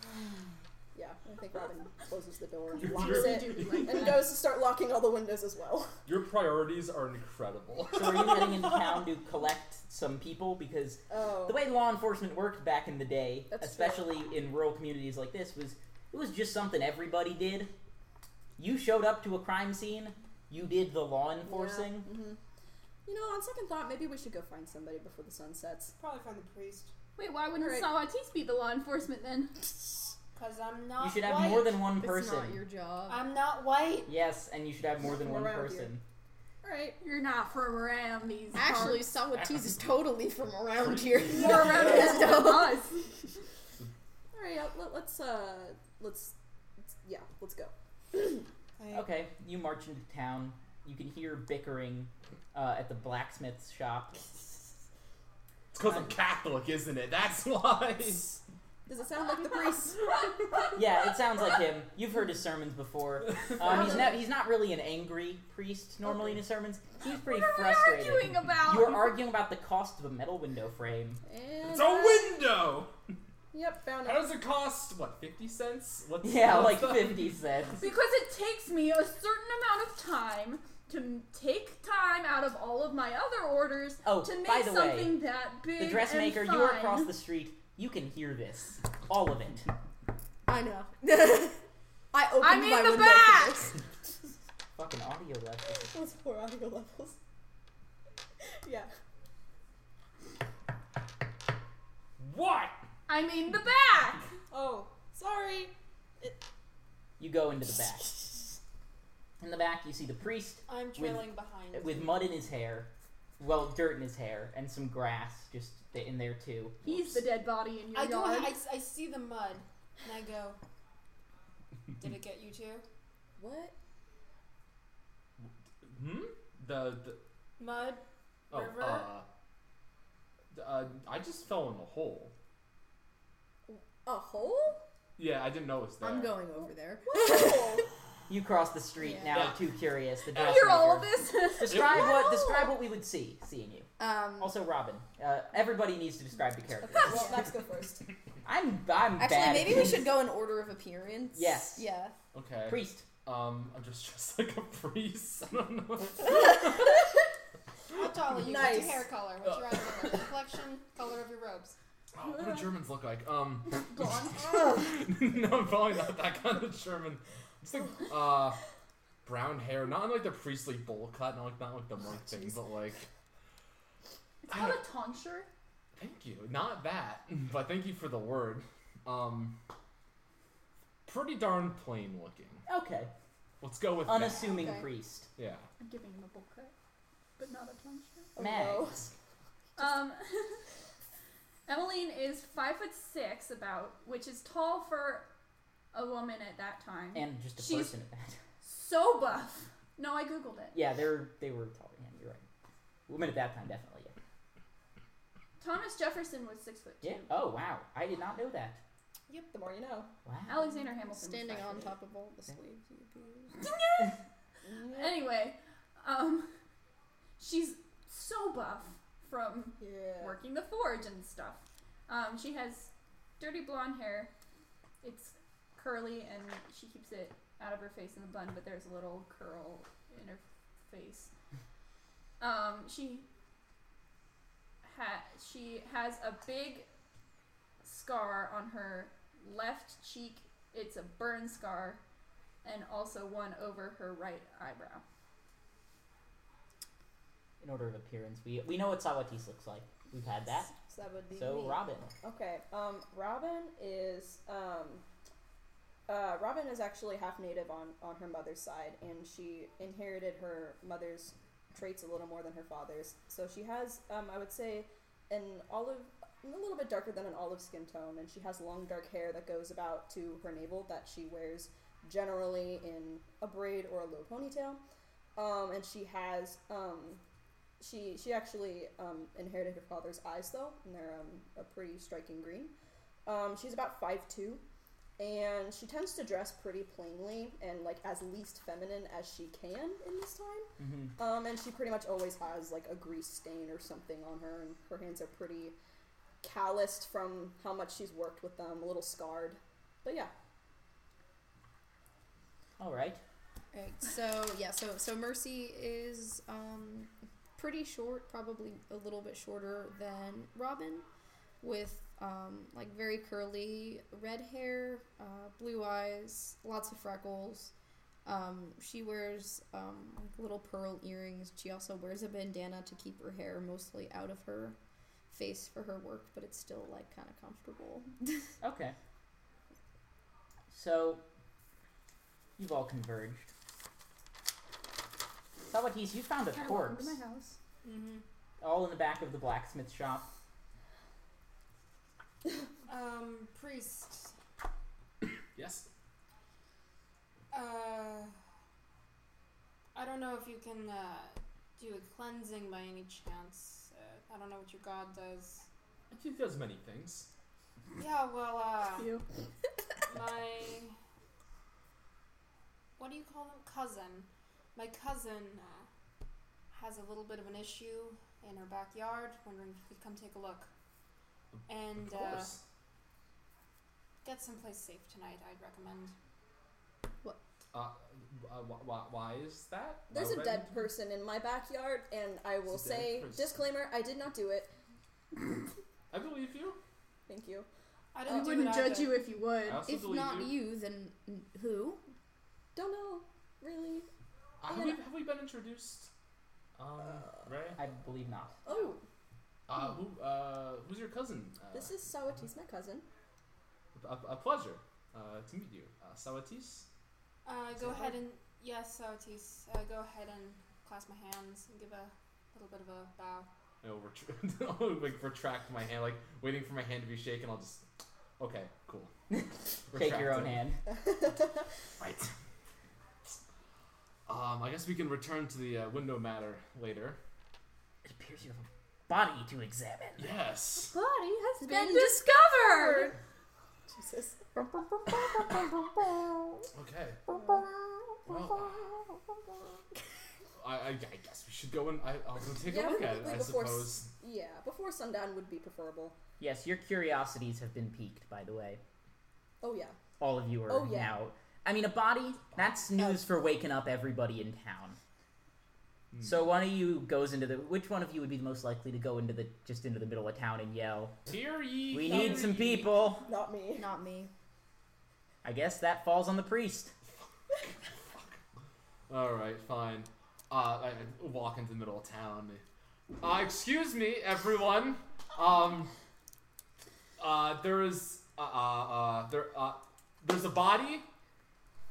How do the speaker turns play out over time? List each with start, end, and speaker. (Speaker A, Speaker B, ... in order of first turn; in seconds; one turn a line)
Speaker A: 0.9-6.0
Speaker B: 2.8-4.2
Speaker C: 2.8-4.3
Speaker B: 6.0-8.7
Speaker D: 7.9-17.7
Speaker A: 11.1-11.6
Speaker A: 13.5-14.1
Speaker D: 18.6-22.1
Speaker A: 21.4-22.4
Speaker A: 23.1-25.9
Speaker E: 26.0-26.9
Speaker C: 27.1-29.6
Speaker A: 27.6-27.9
Speaker E: 30.3-31.8
Speaker D: 31.0-32.6
Speaker F: 32.0-33.3
Speaker E: 33.1-34.1
Speaker D: 34.0-36.0
Speaker A: 35.0-35.9
Speaker A: 36.6-37.0
Speaker C: 37.0-39.1
Speaker F: 38.5-42.8
Speaker B: 39.3-39.8
Speaker B: 40.8-42.0
Speaker C: 41.2-43.0
Speaker A: 44.3-48.3
Speaker E: 48.8-49.1
Speaker D: 48.9-54.2
Speaker B: 55.7-58.4
Speaker A: 58.9-60.1
Speaker D: 60.7-71.2
Speaker A: 63.6-64.2
Speaker C: 67.1-69.2
Speaker A: 71.2-72.4
Speaker B: 71.6-72.9
Speaker A: 73.5-74.3
Speaker B: 74.0-77.3
Speaker D: 76.2-77.8
Speaker C: 77.8-87.1
Speaker D: 84.0-85.2
Speaker D: 85.8-89.7
Speaker F: 90.5-93.8
Speaker C: 92.4-93.7
Speaker D: 94.7-95.9
Speaker A: 95.8-97.2
Speaker A: 98.6-98.9
Speaker B: 102.2-102.7
Speaker C: 103.1-104.3
Speaker A: 104.5-106.4
Speaker D: 107.2-108.1
Speaker D: 109.4-116.8
Speaker E: 110.7-112.3
Speaker C: 116.8-118.6
Speaker E: 117.9-120.6
Speaker E: 122.0-122.8
Speaker A: 123.4-123.7
Speaker B: 125.4-127.2
Speaker E: 127.6-129.2
Speaker B: 128.5-129.2
Speaker B: 130.5-132.3
Speaker A: 133.7-134.8
Speaker B: 135.2-136.4
Speaker F: 136.0-137.8
Speaker A: 137.1-137.9
Speaker D: 138.3-147.3
Speaker B: 139.3-139.6
Speaker B: 140.3-141.0
Speaker C: 140.3-142.2
Speaker B: 141.7-142.0
Speaker F: 144.0-144.6
Speaker A: 146.9-148.0
Speaker D: 148.4-150.1
Speaker F: 149.2-152.2
Speaker D: 151.3-151.9
Speaker B: 152.3-156.9
Speaker D: 152.7-153.1
Speaker A: 156.3-156.9
Speaker E: 157.9-161.8
Speaker A: 158.3-159.1
Speaker B: 162.1-168.6
Speaker C: 163.9-164.3
Speaker B: 169.2-173.1
Speaker C: 174.4-175.5
Speaker B: 174.5-174.8
Speaker B: 175.9-179.5
Speaker B: 181.1-182.6
Speaker D: 182.7-183.1
Speaker B: 183.6-184.8
Speaker D: 184.0-185.3
Speaker B: 185.3-185.7
Speaker C: 185.8-186.7
Speaker C: 187.4-188.3
Speaker A: 188.3-189.1
Speaker D: 188.4-189.0
Speaker C: 189.8-190.6
Speaker C: 191.7-195.3
Speaker C: 195.9-197.9
Speaker D: 197.1-198.4
Speaker C: 198.6-200.8
Speaker D: 200.7-202.4
Speaker D: 203.1-204.1
Speaker C: 205.6-207.4
Speaker D: 207.0-208.8
Speaker A: 209.3-210.1
Speaker D: 210.2-210.7
Speaker C: 210.5-211.9
Speaker F: 211.1-213.7
Speaker C: 213.6-214.2
Speaker A: 214.6-215.3
Speaker C: 214.8-216.5
Speaker C: 217.4-224.3
Speaker A: 219.8-220.4
Speaker C: 225.0-231.3
Speaker C: 232.4-233.2
Speaker C: 234.8-236.9
Speaker C: 237.8-242.0
Speaker C: 242.6-245.0
Speaker D: 247.6-250.7
Speaker F: 250.8-251.8
Speaker D: 251.3-252.1
Speaker A: 252.2-255.0
Speaker A: 256.1-274.8
Speaker A: 275.4-277.2
Speaker A: 277.8-282.7
Speaker A: 283.2-284.6
Speaker A: 285.2-295.8
Speaker D: 290.8-291.1
Speaker A: 296.4-300.3
Speaker D: 302.8-303.2
Speaker F: 303.7-311.0
Speaker F: 311.6-317.7
Speaker F: 318.2-324.8
Speaker F: 325.3-328.5
Speaker D: 328.6-328.9
Speaker D: 330.7-331.2
Speaker D: 332.6-333.5
Speaker D: 335.7-337.2
Speaker C: 336.5-337.6
Speaker E: 337.9-338.2
Speaker D: 338.6-340.3
Speaker E: 342.9-344.3
Speaker B: 345.5-345.9
Speaker E: 347.5-348.3
Speaker E: 349.9-355.7
Speaker B: 356.1-357.3
Speaker E: 358.0-359.1
Speaker C: 359.0-359.2
Speaker E: 360.1-360.9
Speaker E: 363.0-365.9
Speaker E: 366.7-370.7
Speaker B: 371.5-372.6
Speaker E: 371.7-372.6
Speaker E: 374.2-376.1
Speaker B: 377.7-380.8
Speaker A: 380.1-384.7
Speaker B: 382.7-383.6
Speaker B: 386.1-386.8
Speaker A: 387.3-387.7
Speaker E: 388.1-389.3
Speaker C: 388.2-389.8
Speaker B: 389.6-390.6
Speaker F: 389.9-392.0
Speaker A: 392.7-394.1
Speaker B: 394.6-396.1
Speaker A: 394.7-395.0
Speaker B: 396.8-397.8
Speaker D: 397.8-398.6
Speaker E: 398.6-399.0
Speaker A: 398.6-399.0
Speaker B: 399.7-402.0
Speaker A: 401.7-403.1
Speaker B: 403.9-406.9
Speaker E: 407.4-413.5
Speaker B: 413.8-417.9
Speaker B: 418.4-419.1
Speaker D: 419.3-420.8
Speaker B: 419.9-420.6
Speaker A: 421.1-421.4
Speaker B: 422.0-422.3
Speaker B: 424.3-427.2
Speaker D: 428.0-430.3
Speaker B: 430.2-430.9
Speaker C: 430.9-433.1
Speaker F: 431.6-433.1
Speaker A: 433.9-434.4
Speaker F: 434.5-436.7
Speaker B: 436.7-437.2
Speaker F: 437.3-439.5
Speaker A: 437.3-437.6
Speaker B: 438.2-438.9
Speaker B: 440.6-444.1
Speaker A: 442.6-446.1
Speaker D: 446.4-448.8
Speaker A: 449.6-450.0
Speaker D: 450.2-455.0
Speaker A: 450.7-451.2
Speaker B: 456.1-456.4
Speaker D: 456.2-461.2
Speaker B: 461.2-462.9
Speaker D: 461.9-463.2
Speaker A: 462.1-463.9
Speaker F: 463.7-464.3
Speaker D: 465.4-466.9
Speaker B: 468.1-468.4
Speaker B: 469.1-472.6
Speaker B: 473.2-475.9
Speaker B: 477.2-481.1